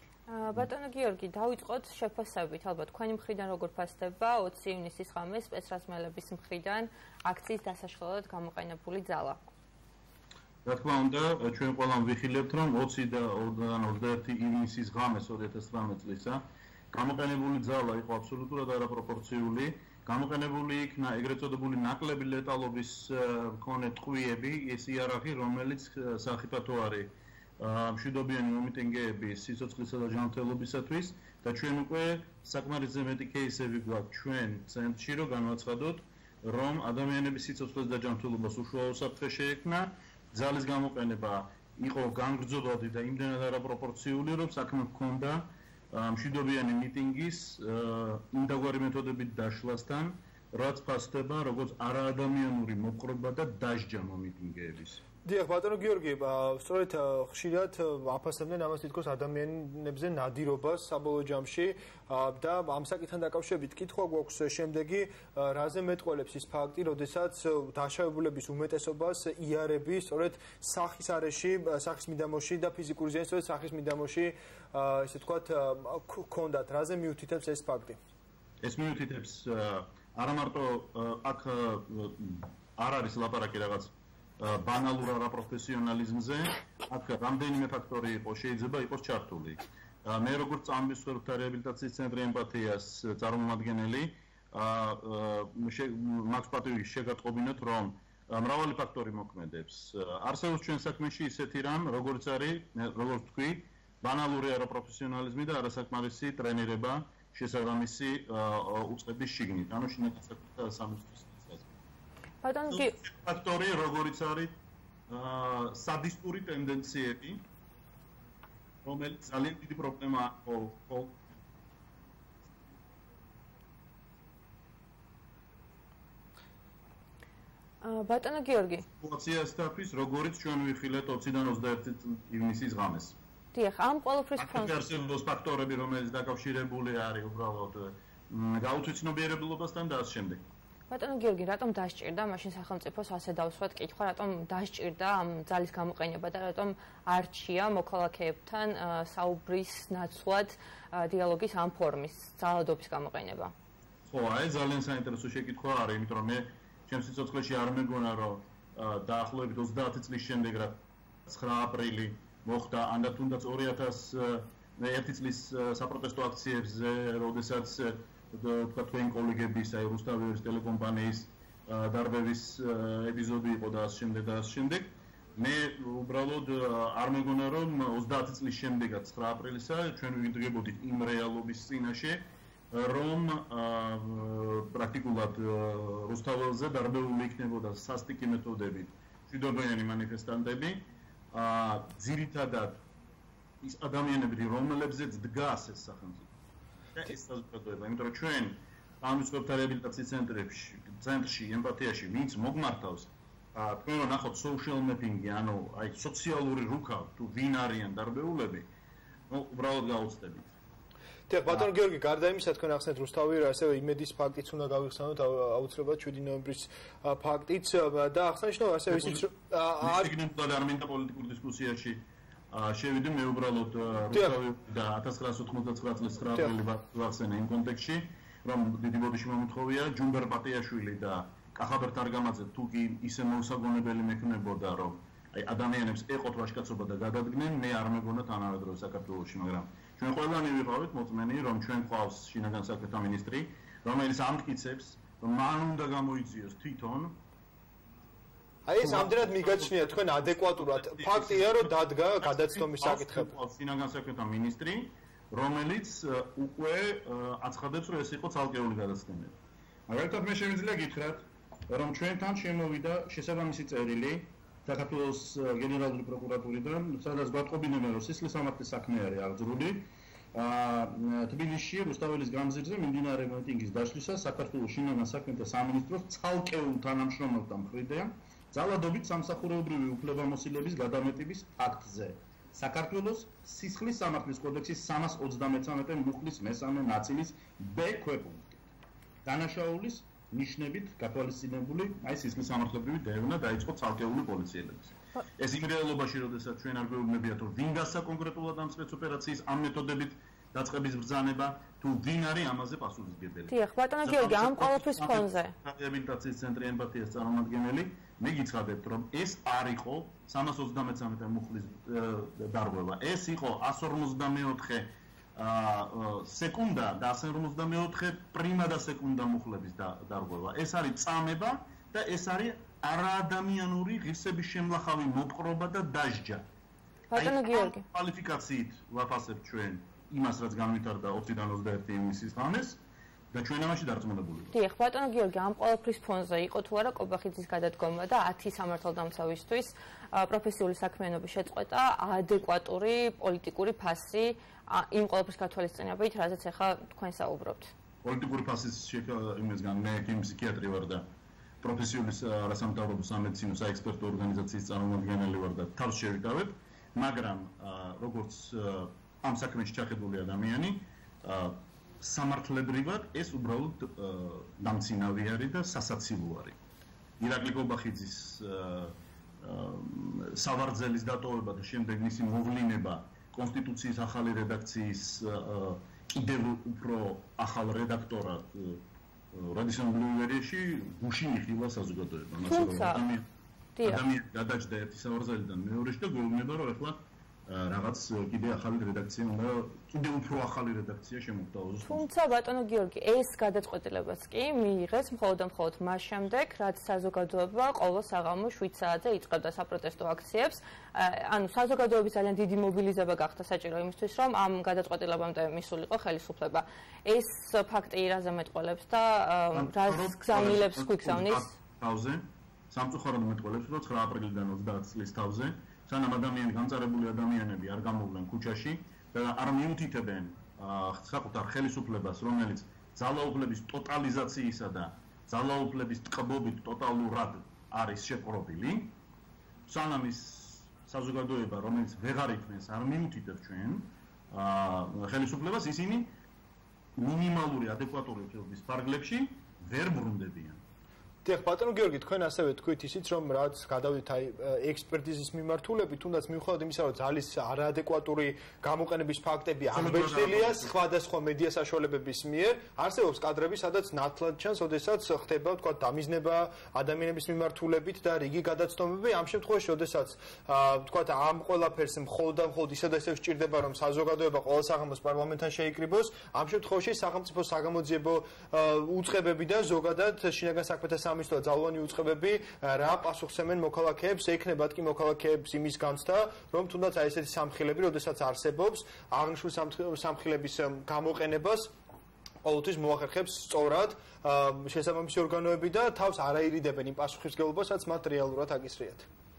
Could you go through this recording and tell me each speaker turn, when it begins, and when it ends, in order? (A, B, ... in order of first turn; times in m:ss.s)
0:00.3-0:09.4 A
0:10.6-0:55.0 B
0:55.3-1:18.0 C
1:18.6-1:51.7 B
1:52.4-1:53.0 A
1:52.7-1:54.6 B
1:55.1-1:57.4 B
1:58.8-2:01.2 B
2:07.8-2:08.9 A
2:09.0-2:13.2 B
2:13.5-2:14.8 A
2:14.4-2:20.4 B
2:20.9-2:33.5 A
2:34.1-3:12.8 B
3:13.6-3:16.3 B
3:17.0-3:28.7 B
3:29.3-3:30.6 B
3:31.3-3:40.1 C
3:38.9-3:39.2 B
3:39.8-4:07.2 B
4:08.7-4:13.3 C
4:08.8-4:19.4 B
4:19.9-4:48.7 B
4:49.2-5:03.5 B
5:03.5-5:05.6 A
5:04.0-5:26.4 B
5:27.1-5:27.8 A
5:27.2-5:32.8 B
5:33.3-5:34.6 B
5:34.5-5:47.7 A
5:48.0-5:51.0 B
5:51.6-6:06.6 B
6:07.2-6:18.8 B
6:19.3-6:23.3 B
6:22.4-6:23.0 A
6:23.8-6:24.0 A
6:23.8-6:32.0 B
6:31.8-6:51.6 A
6:49.5-7:09.0 B
7:09.7-7:16.1 B
7:17.0-7:20.6 B
7:21.2-8:01.7 C
7:29.7-7:30.7 B
8:02.4-8:09.1 C